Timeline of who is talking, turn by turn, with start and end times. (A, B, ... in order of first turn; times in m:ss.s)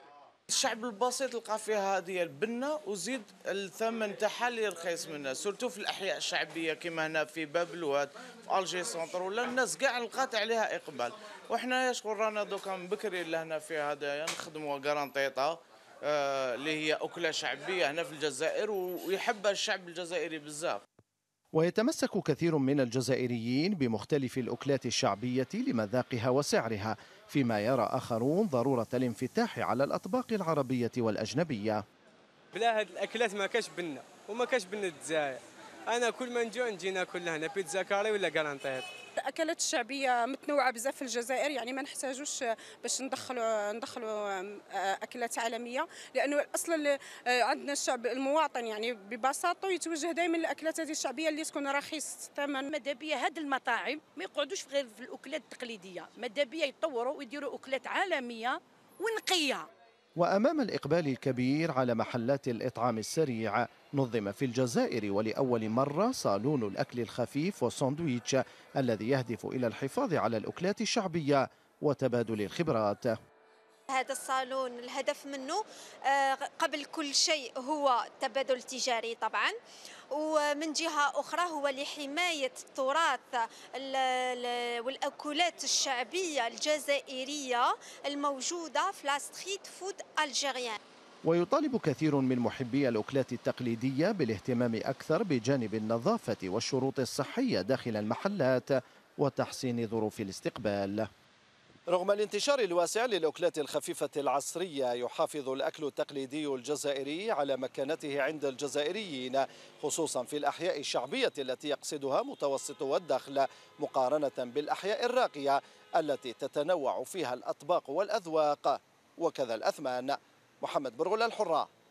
0:00.5-0:20.8 A
0:21.6-0:31.8 B
0:32.5-0:38.8 C
0:39.2-0:52.7 D
0:52.7-0:59.7 E
1:00.2-1:13.2 B
1:13.9-1:19.6 F
1:20.1-1:30.8 F
1:31.2-1:41.1 B
1:41.9-2:01.7 B